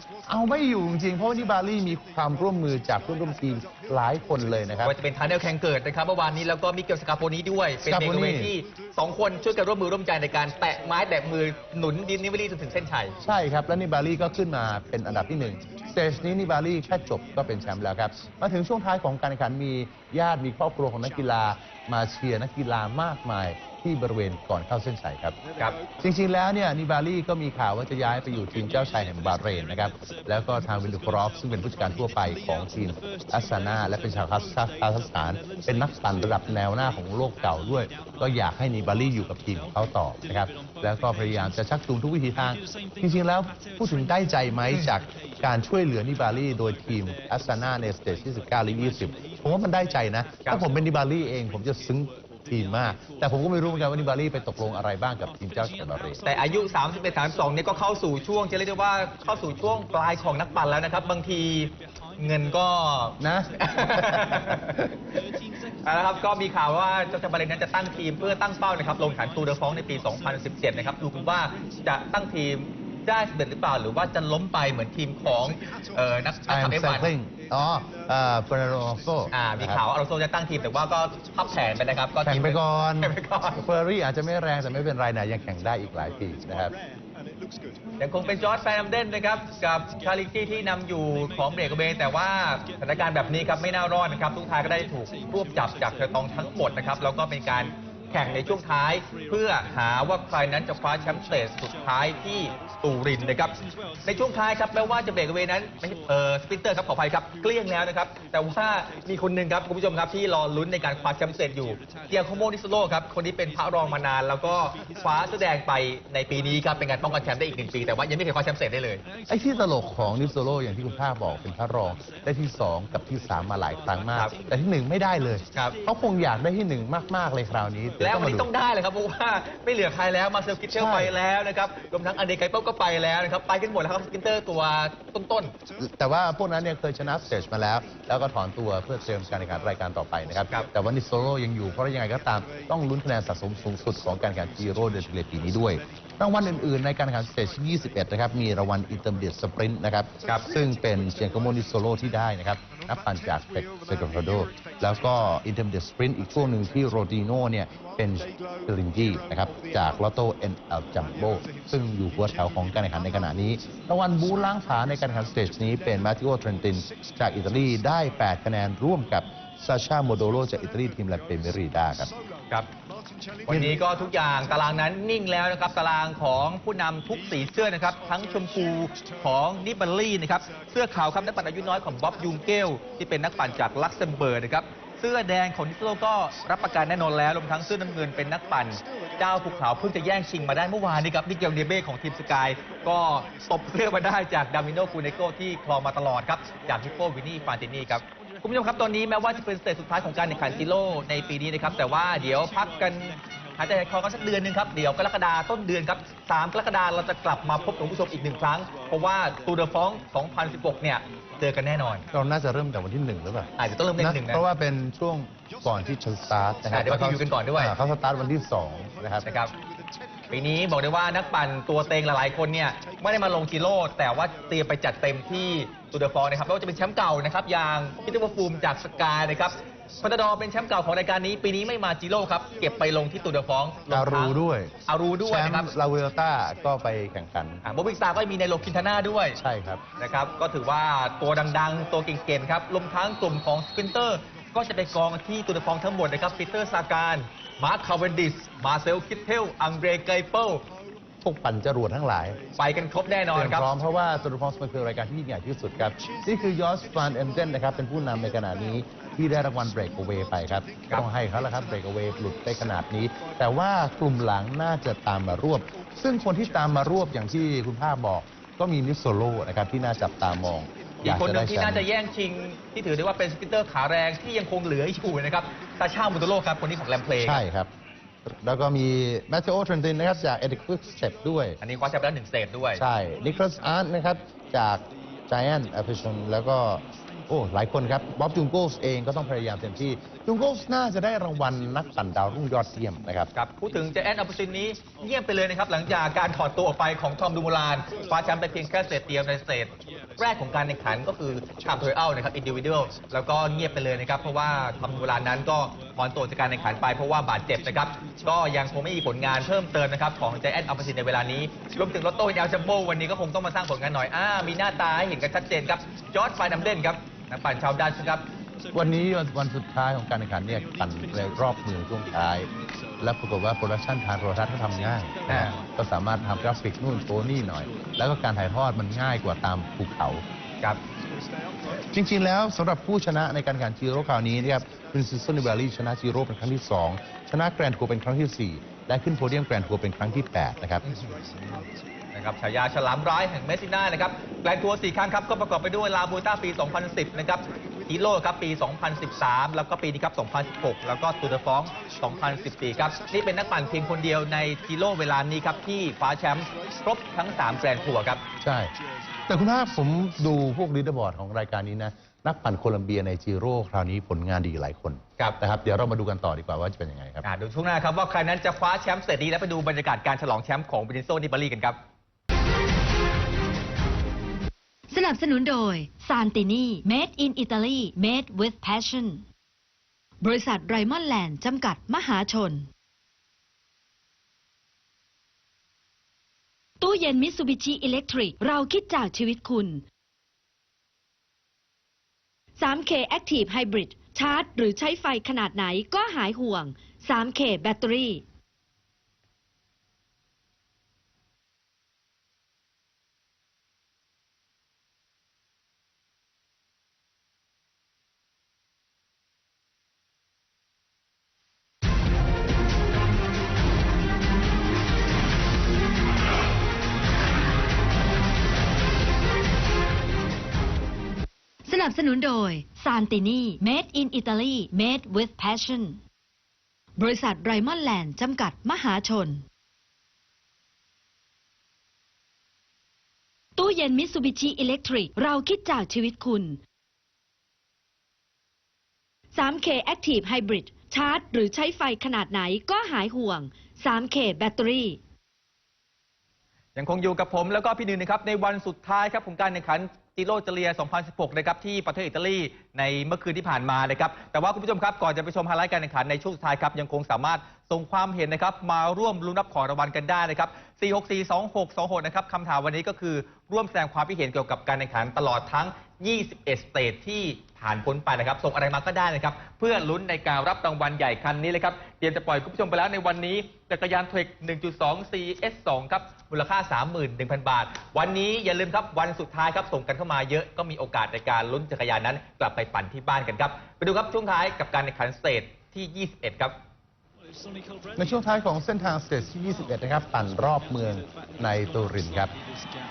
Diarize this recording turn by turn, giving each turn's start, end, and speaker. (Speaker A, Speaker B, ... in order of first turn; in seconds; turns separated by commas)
Speaker A: 0.3-5.0, Speaker B: 4.8-13.1, Speaker A: 7.9-8.5, Speaker A: 13.2-25.4, Speaker A: 26.0-56.2, Speaker B: 56.2-65.0, Speaker A: 63.2-64.6, Speaker B: 65.8-77.1, Speaker A: 76.5-79.8, Speaker B: 79.3-83.7, Speaker A: 82.2-86.7, Speaker B: 88.0-119.0, Speaker A: 119.3-128.5, Speaker B: 128.0-135.5, Speaker A: 130.8-131.2, Speaker A: 135.8-172.1, Speaker B: 173.5-212.1, Speaker A: 173.5-173.8, Speaker A: 212.1-219.3, Speaker B: 213.6-214.4, Speaker B: 216.7-217.7, Speaker B: 219.2-219.5, Speaker B: 220.3-235.7, Speaker A: 233.9-234.7, Speaker A: 235.2-237.6, Speaker B: 237.7-239.4, Speaker A: 239.4-239.8, Speaker B: 240.0-250.7, Speaker A: 251.2-252.4, Speaker B: 252.6-253.7, Speaker A: 253.3-271.9, Speaker B: 271.0-277.4, Speaker A: 277.2-277.7, Speaker A: 278.3-281.6, Speaker B: 281.6-282.8, Speaker A: 282.8-293.3, Speaker B: 293.4-318.2, Speaker A: 318.7-322.5, Speaker A: 323.0-330.2, Speaker B: 325.3-325.6, Speaker A: 331.9-340.8, Speaker B: 340.8-341.6, Speaker B: 342.1-358.2, Speaker A: 358.4-358.7, Speaker A: 359.3-367.2, Speaker B: 367.2-371.8, Speaker C: 374.9-379.2, Speaker C: 380.2-382.7, Speaker C: 386.8-389.8, Speaker C: 392.6-398.2, Speaker C: 421.6-426.0, Speaker C: 427.0-429.4, Speaker C: 433.6-436.6, Speaker C: 439.3-445.0, Speaker B: 446.8-486.6, Speaker A: 488.0-492.3